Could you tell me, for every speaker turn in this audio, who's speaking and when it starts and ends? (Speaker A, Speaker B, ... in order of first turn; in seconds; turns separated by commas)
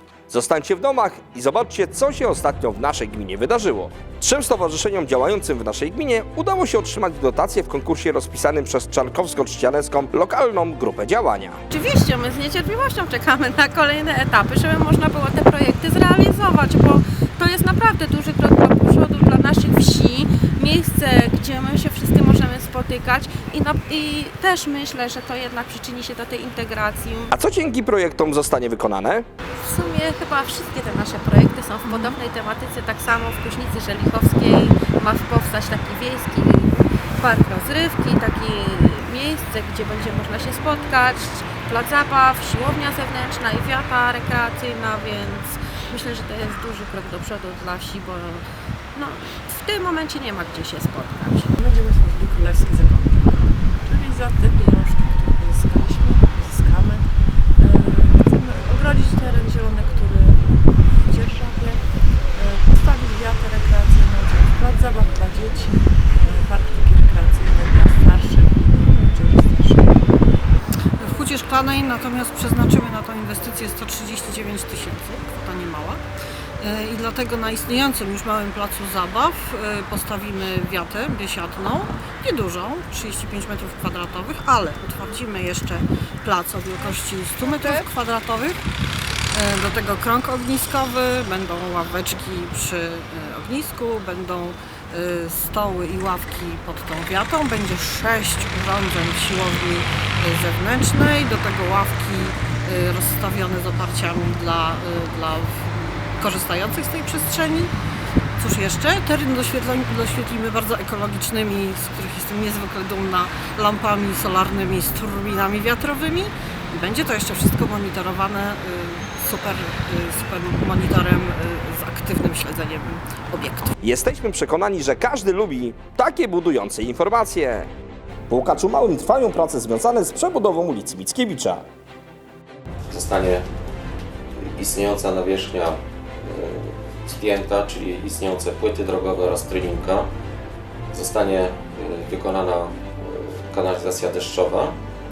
Speaker A: 0.3-11.6, Speaker B: 11.7-27.3, Speaker A: 27.3-29.3, Speaker B: 29.6-48.4, Speaker B: 48.9-51.5, Speaker C: 51.5-70.2, Speaker D: 71.0-76.0, Speaker D: 76.6-88.6, Speaker D: 89.3-107.7, Speaker D: 108.4-123.8, Speaker A: 123.8-127.7, Speaker A: 128.3-131.6, Speaker E: 132.9-133.4, Speaker E: 134.4-140.1, Speaker E: 140.9-144.7